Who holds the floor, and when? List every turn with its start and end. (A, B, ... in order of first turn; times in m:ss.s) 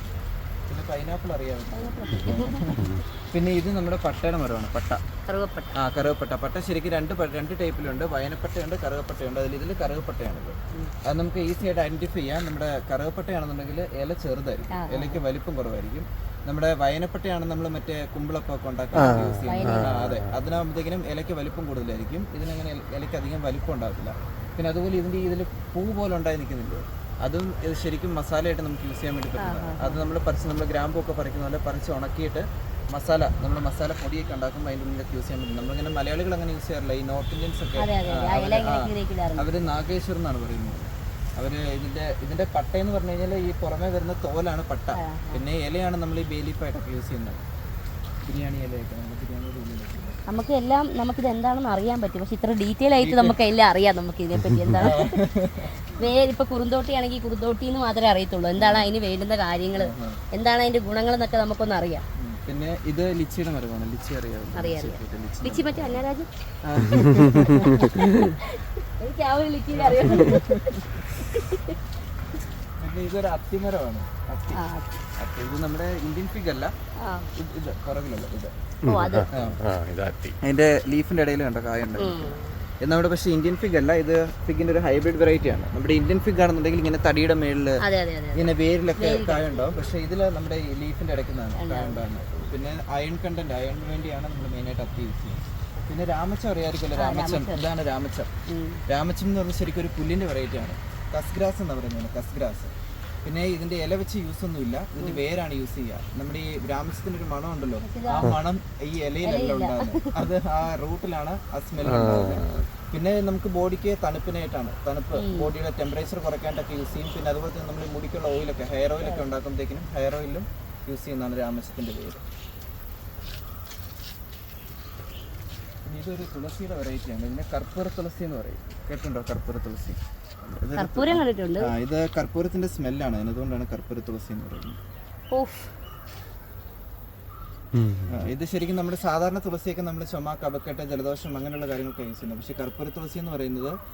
0:00.7-0:05.0 A
0:01.7-0:02.9 B
0:05.3-0:05.8 B
0:05.7-0:47.4 A
0:14.7-0:15.2 B
0:18.9-0:20.3 C
0:19.4-0:19.9 B
0:29.4-0:30.0 B
0:37.8-0:39.5 B
0:45.0-0:45.4 B
0:48.2-0:50.2 A
0:50.3-0:55.2 B
0:53.0-0:53.4 A
0:54.8-0:55.8 A
0:55.8-1:02.0 B
0:58.6-0:58.9 A
0:59.7-1:00.2 A
1:02.2-1:06.0 A
1:04.5-1:06.3 B
1:06.6-1:08.0 A
1:07.6-1:11.7 B
1:09.7-1:11.2 A
1:12.8-1:14.6 A
1:14.5-1:15.0 B
1:15.2-1:16.7 A
1:17.0-1:17.3 B
1:17.3-1:18.6 A
1:18.8-1:20.4 C
1:18.8-1:19.3 B
1:19.3-1:19.6 A
1:20.4-1:27.8 A
1:22.0-1:22.6 B
1:27.8-1:29.6 B
1:28.3-1:38.3 A
1:31.6-1:32.0 B
1:36.9-1:37.6 B
1:38.5-1:38.8 B
1:38.9-1:42.7 A
1:43.2-2:02.2 A
1:47.8-1:48.3 B
1:49.2-1:50.2 B
1:51.8-1:52.7 C
1:55.1-1:55.5 B
2:05.8-2:14.8 A
2:10.8-2:11.7 B
2:15.3-2:15.7 B
2:17.7-2:18.3 C
2:18.1-2:23.8 A